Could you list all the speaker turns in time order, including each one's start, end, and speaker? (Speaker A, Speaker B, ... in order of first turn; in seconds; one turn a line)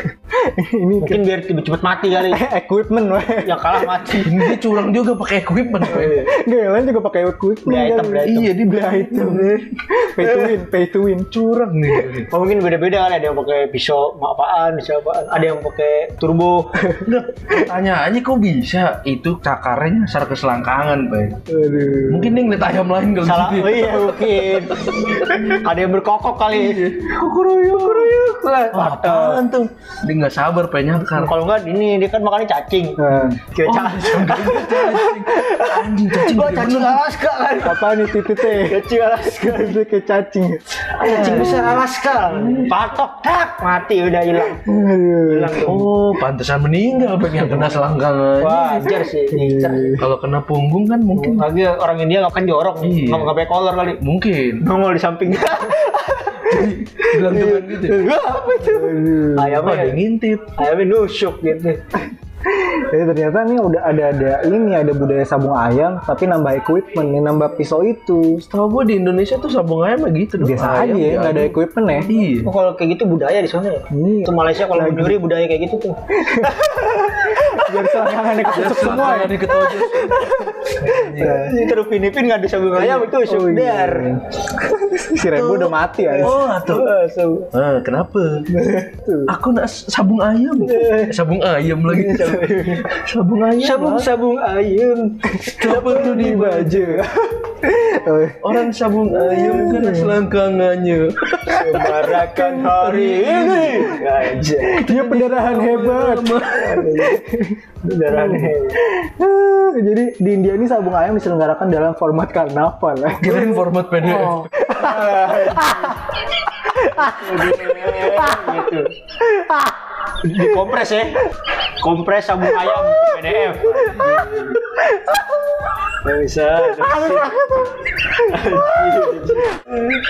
Speaker A: 0.3-1.2
Speaker B: 1.0-2.4
Speaker A: 2.1-4.0
Speaker B: 3.4-4.4
Speaker C: 4.2-6.2
Speaker A: 5.8-11.3
Speaker B: 5.9-6.2
Speaker B: 7.7-8.5
Speaker C: 8.2-9.6
Speaker C: 11.3-12.3
Speaker B: 12.2-16.8
Speaker C: 17.0-21.4
Speaker A: 21.5-22.4
Speaker C: 22.1-25.6
Speaker B: 23.2-26.8
Speaker C: 26.5-28.2
Speaker B: 27.8-29.4
Speaker C: 28.7-31.3
Speaker B: 31.1-39.8
Speaker A: 33.0-33.4
Speaker C: 33.6-37.1
Speaker A: 37.6-41.7
Speaker B: 40.9-44.6
Speaker A: 44.5-45.6
Speaker B: 45.2-45.9
Speaker C: 45.6-48.9
Speaker B: 48.4-50.0
Speaker A: 49.3-50.1
Speaker C: 50.0-51.5
Speaker B: 51.1-54.0
Speaker C: 52.8-53.3
Speaker C: 54.0-54.6
Speaker B: 54.6-60.0
Speaker C: 56.4-58.0
Speaker A: 58.6-59.7
Speaker C: 59.6-60.6
Speaker B: 60.5-61.8
Speaker A: 62.5-68.4
Speaker C: 68.4-72.5
Speaker A: 70.4-72.1
Speaker B: 72.4-78.8
Speaker A: 73.9-75.2
Speaker A: 76.2-81.6
Speaker C: 78.5-81.5
Speaker B: 81.2-84.1
Speaker A: 82.8-86.4
Speaker C: 85.2-86.8
Speaker B: 86.1-87.5
Speaker C: 87.5-88.5
Speaker A: 88.5-89.3
Speaker C: 89.3-92.2
Speaker B: 90.6-91.1
Speaker B: 92.0-93.0
Speaker A: 92.0-92.8
Speaker C: 93.0-94.1
Speaker B: 93.6-96.1
Speaker A: 95.3-100.2
Speaker C: 95.5-97.0
Speaker C: 98.4-102.0
Speaker B: 101.5-104.8
Speaker A: 102.0-102.8
Speaker C: 102.8-103.9
Speaker A: 104.6-119.8
Speaker C: 104.6-107.0
Speaker B: 106.8-107.2
Speaker B: 107.8-108.8
Speaker C: 113.2-114.5
Speaker B: 114.7-116.0
Speaker B: 117.0-118.9
Speaker B: 120.1-121.3
Speaker A: 120.3-120.7
Speaker B: 121.8-124.6
Speaker A: 122.4-125.7
Speaker B: 126.0-127.3
Speaker A: 126.6-129.8
Speaker B: 128.2-129.9